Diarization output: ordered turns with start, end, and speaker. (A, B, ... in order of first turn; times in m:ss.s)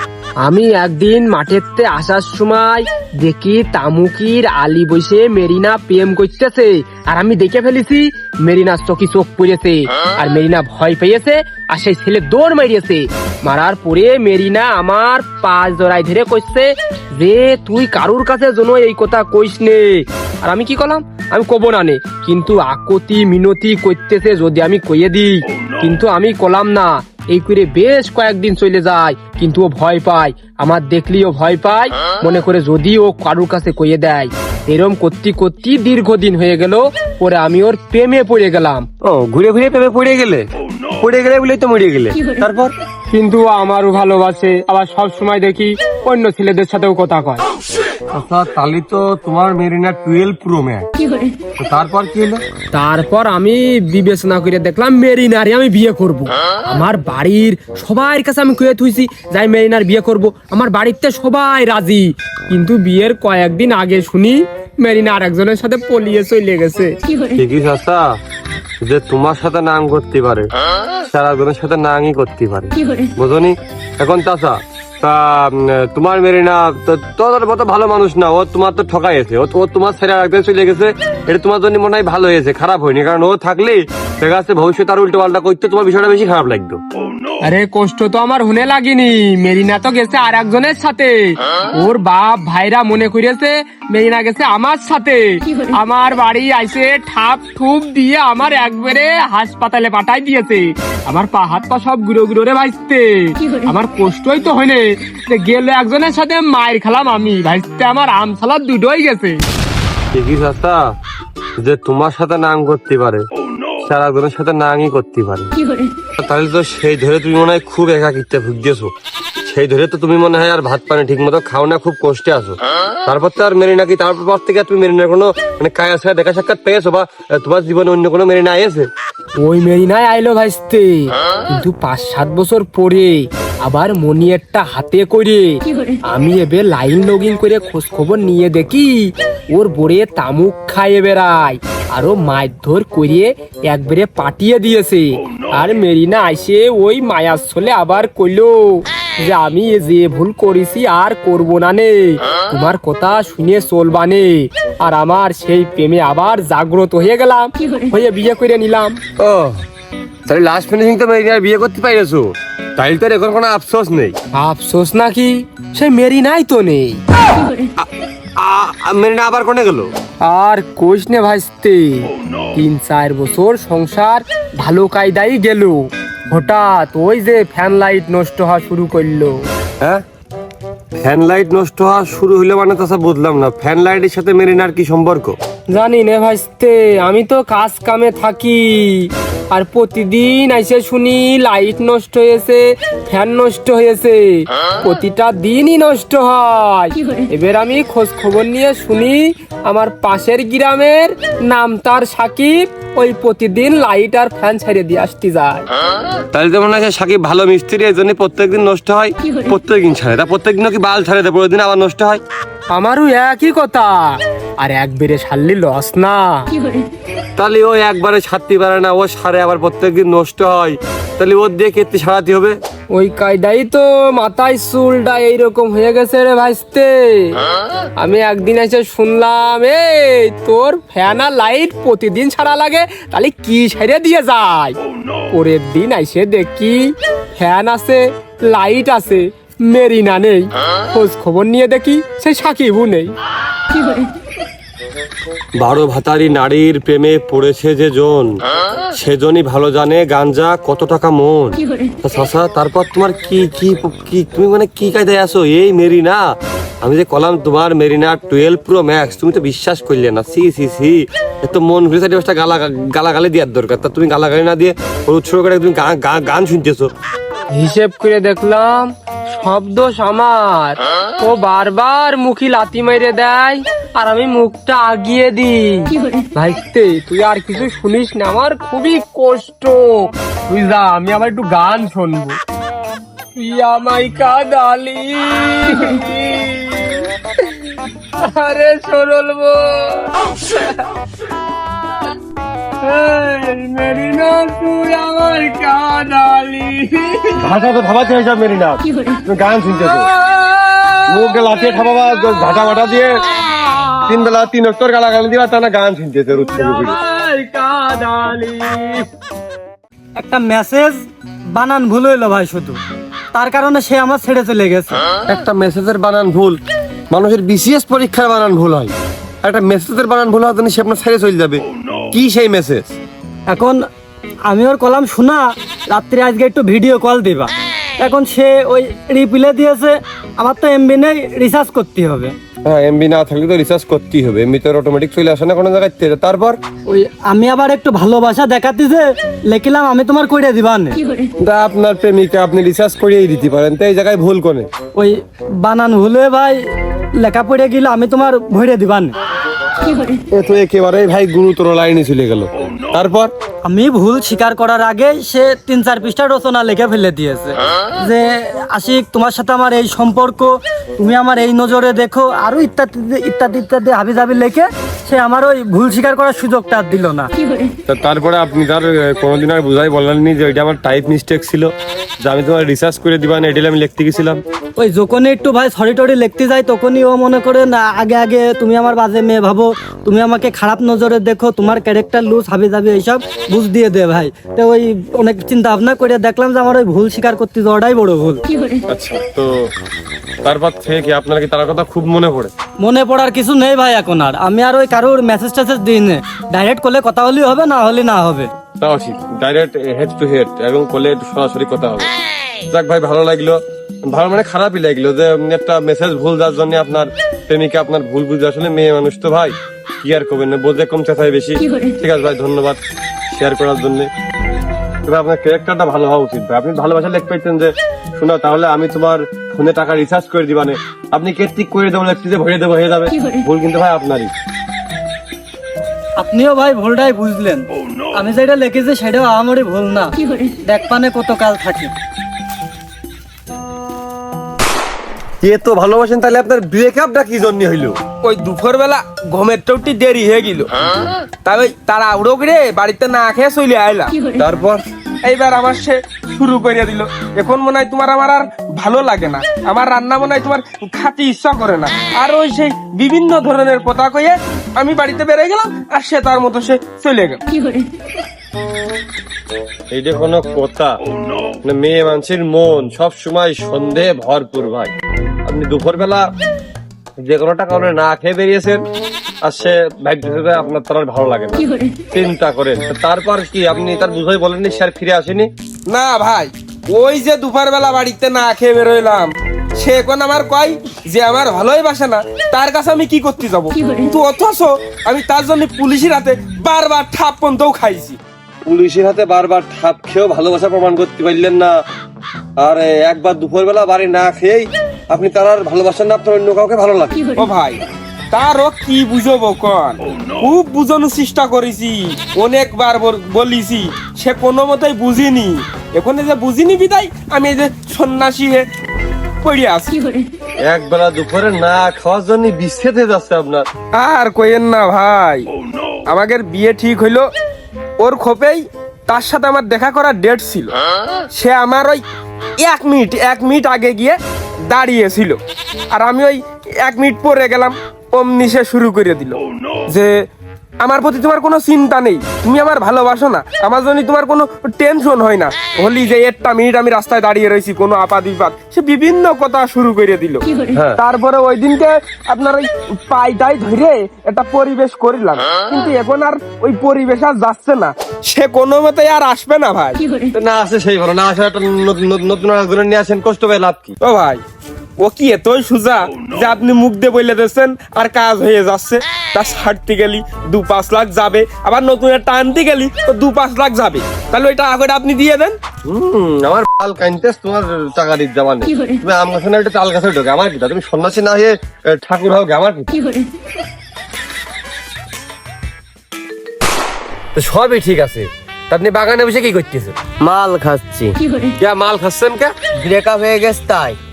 0:00.4-0:38.9 A
0:39.0-0:40.5 B
0:41.0-0:42.7 B
0:43.1-0:47.4 A
0:48.1-0:50.9 B
0:51.6-0:52.4 B
0:52.7-1:07.0 A
1:07.4-1:08.1 B
1:08.8-1:10.5 B
1:11.1-1:26.8 B
1:27.4-1:49.4 A
1:50.1-1:50.8 B
1:51.6-1:53.2 B
1:53.8-1:55.6 B
1:56.2-1:58.9 B
1:59.4-2:08.9 B
2:09.4-2:39.0 A
2:39.2-2:39.6 B
2:40.3-2:44.2 B
2:44.4-2:47.0 A
2:47.8-2:49.9 B
2:50.2-2:59.4 A
3:01.0-3:05.4 B
3:05.7-3:25.7 A
3:26.3-3:32.2 B
3:32.7-3:36.5 A
3:37.4-3:42.6 B
3:42.9-3:47.4 A
3:48.0-3:54.8 A
3:55.3-4:03.1 A
4:05.6-4:08.4 B
4:08.9-4:16.2 B
4:16.8-4:26.9 B
4:27.5-4:42.4 A
4:43.4-4:47.1 A
4:48.2-4:50.7 A
4:52.8-4:57.4 A
4:57.4-5:00.1 B
5:00.2-5:04.0 A
5:01.1-5:03.2 B
5:04.1-5:07.0 B
5:06.6-5:09.0 A
5:10.2-5:11.0 C
5:11.6-5:12.8 C
5:13.3-5:15.0 C
5:15.3-5:16.6 B
5:17.1-5:23.0 B
5:23.5-5:23.8 C
5:24.5-5:32.3 C
5:32.6-5:36.6 B
5:36.9-5:41.0 C
5:41.4-5:44.7 B
5:45.0-5:46.6 C
5:47.2-5:49.2 C
5:50.3-5:53.3 B
5:53.6-6:07.3 C
6:07.9-6:14.4 B
6:14.8-6:28.4 C
6:28.9-6:29.7 B
6:30.4-6:32.5 B
6:32.8-6:38.5 C
6:38.8-6:42.1 B
6:42.7-6:52.8 B
6:53.3-6:54.1 B
6:55.1-7:04.3 B
7:06.2-7:11.9 C
7:15.4-7:18.0 B
7:18.2-7:20.7 D
7:21.4-7:24.2 D
7:24.4-7:24.8 B
7:25.2-7:37.4 D
7:39.9-7:40.9 B
7:41.6-7:44.9 B
7:45.5-7:46.3 B
7:47.2-7:48.8 B
7:49.4-7:55.5 B
7:55.9-8:08.2 D
8:08.6-8:11.8 B
8:12.6-8:17.3 B
8:17.4-8:17.8 D
8:18.3-8:28.7 D
8:29.4-8:30.0 D
8:30.6-8:33.7 B
8:33.9-8:35.5 D
8:36.1-8:37.3 D
8:38.0-8:40.7 D
8:41.3-8:42.0 D
8:42.6-8:45.4 D
8:45.9-8:50.1 D
8:50.8-9:10.0 D
9:00.7-9:01.0 B
9:10.3-9:14.0 B
9:14.0-9:14.4 D
9:15.0-9:25.6 D
9:25.9-9:33.0 B
9:37.4-9:40.0 B
9:40.2-9:41.2 E
9:41.6-9:42.6 B
9:42.8-9:44.0 E